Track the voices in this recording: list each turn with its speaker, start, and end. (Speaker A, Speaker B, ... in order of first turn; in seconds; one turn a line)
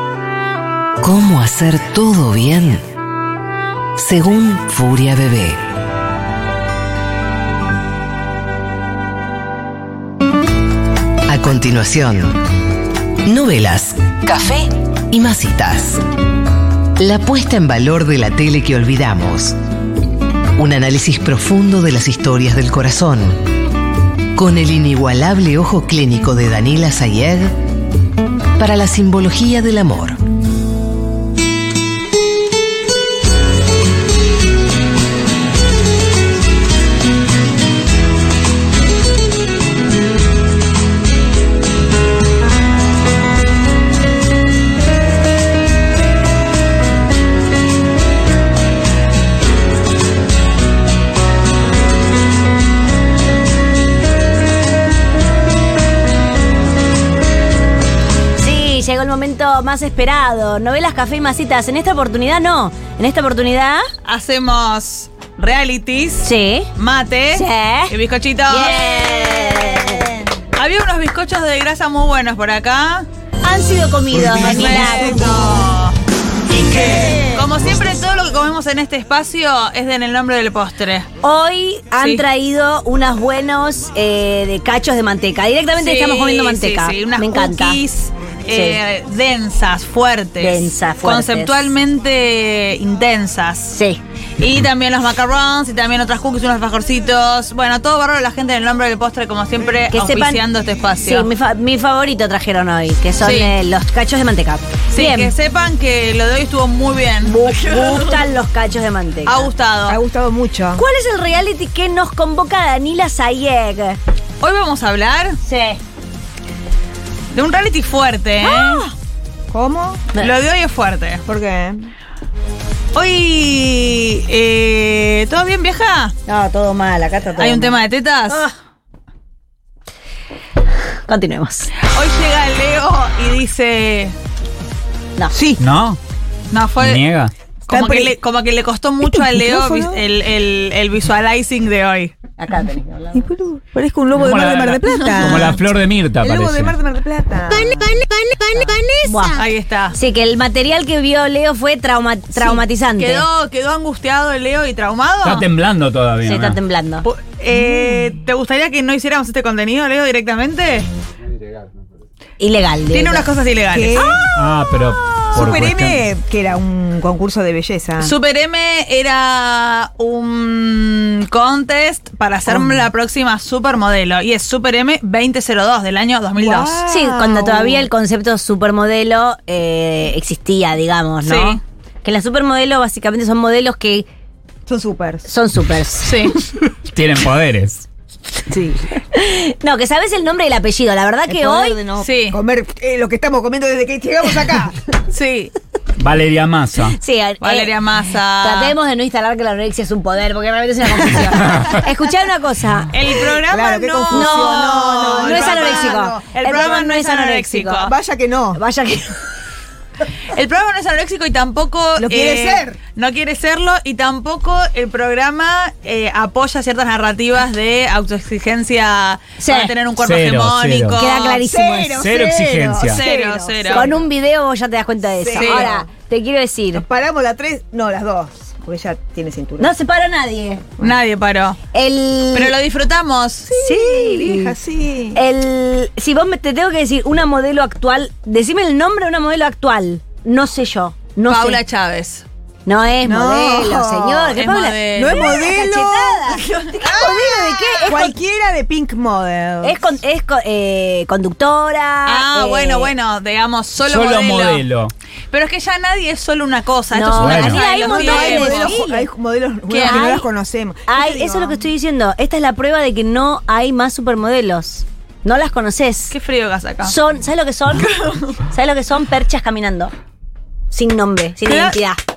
Speaker A: 1.0-2.8
Speaker A: 4.0-5.6
Speaker A: 11.3-12.4
Speaker A: 13.2-14.1
Speaker A: 15.1-16.0
Speaker A: 17.0-19.5
Speaker A: 20.6-23.4
Speaker A: 24.3-27.6
Speaker A: 28.6-30.2
Speaker B: 58.4-63.9
Speaker C: 64.0-68.8
Speaker B: 66.2-66.7
Speaker B: 67.3-67.9
Speaker B: 68.5-70.1
Speaker D: 68.6-70.3
Speaker C: 70.5-73.1
Speaker B: 73.4-75.2
Speaker C: 74.3-76.0
Speaker D: 76.7-77.5
Speaker C: 76.9-81.1
Speaker B: 81.2-87.8
Speaker C: 82.0-82.2
Speaker C: 85.8-93.8
Speaker B: 88.5-88.8
Speaker B: 90.4-91.7
Speaker B: 93.7-94.0
Speaker C: 94.4-101.3
Speaker B: 99.9-100.4
Speaker B: 101.0-105.3
Speaker C: 103.2-103.5
Speaker C: 104.9-108.2
Speaker B: 107.2-109.5
Speaker C: 109.2-110.0
Speaker D: 109.9-110.8
Speaker B: 110.8-114.0
Speaker C: 114.4-115.4
Speaker B: 115.4-115.8
Speaker C: 117.3-118.8
Speaker B: 118.4-118.9
Speaker D: 119.5-120.0
Speaker C: 120.2-121.2
Speaker D: 121.2-121.9
Speaker C: 122.9-126.1
Speaker B: 126.3-128.5
Speaker C: 127.4-128.4
Speaker B: 131.1-131.7
Speaker C: 131.9-134.1
Speaker D: 135.3-135.6
Speaker E: 135.6-136.0
Speaker C: 136.5-137.0
Speaker E: 136.8-137.3
Speaker C: 137.7-142.1
Speaker D: 137.7-138.2
Speaker D: 139.0-140.0
Speaker B: 142.4-143.3
Speaker D: 143.1-145.6
Speaker E: 144.2-146.8
Speaker D: 146.2-148.8
Speaker B: 148.5-153.2
Speaker C: 149.3-149.9
Speaker C: 152.4-155.5
Speaker E: 155.2-156.6
Speaker B: 156.2-157.1
Speaker C: 157.0-160.8
Speaker D: 157.5-158.2
Speaker B: 162.4-163.3
Speaker C: 162.9-164.3
Speaker D: 163.7-164.2
Speaker E: 164.3-166.0
Speaker D: 165.3-168.2
Speaker C: 168.0-177.7
Speaker D: 172.5-172.9
Speaker D: 176.3-177.6
Speaker B: 176.9-184.1
Speaker C: 181.2-181.6
Speaker D: 184.7-185.2
Speaker B: 185.3-186.1
Speaker C: 186.0-186.3
Speaker E: 186.9-187.8
Speaker B: 189.1-191.8
Speaker D: 191.3-194.8
Speaker C: 192.0-192.4
Speaker C: 195.1-195.5
Speaker E: 196.0-197.0
Speaker B: 197.0-197.7
Speaker C: 197.4-198.7
Speaker B: 198.4-203.0
Speaker C: 202.9-207.9
Speaker D: 203.4-206.8
Speaker B: 204.1-207.9
Speaker D: 207.7-208.6
Speaker B: 208.5-209.2
Speaker C: 210.3-221.4
Speaker D: 212.0-212.8
Speaker B: 219.4-219.7
Speaker E: 220.0-221.0
Speaker B: 220.9-222.0
Speaker D: 221.4-224.0
Speaker E: 222.0-223.0
Speaker C: 222.8-223.9
Speaker B: 223.7-226.8
Speaker D: 225.2-225.9
Speaker C: 225.3-225.7
Speaker D: 226.7-229.7
Speaker B: 229.6-230.6
Speaker C: 230.8-231.6
Speaker B: 231.7-232.5
Speaker C: 232.3-233.5
Speaker D: 233.5-235.2
Speaker B: 233.6-234.5
Speaker B: 235.1-241.6
Speaker C: 241.3-242.2
Speaker B: 242.7-248.1
Speaker D: 243.0-244.3
Speaker C: 244.3-245.4
Speaker D: 244.9-247.1
Speaker C: 246.7-247.9
Speaker D: 247.8-249.8
Speaker B: 249.6-252.9
Speaker C: 252.1-254.6
Speaker E: 253.9-254.9
Speaker C: 255.3-258.7
Speaker B: 256.9-259.1
Speaker E: 257.1-257.7
Speaker D: 257.7-261.6
Speaker C: 259.7-260.3
Speaker B: 259.8-260.1
Speaker B: 260.9-266.1
Speaker C: 266.1-266.9
Speaker B: 266.8-267.9
Speaker C: 267.8-268.4
Speaker B: 268.5-269.9
Speaker B: 270.7-272.0
Speaker C: 271.4-271.8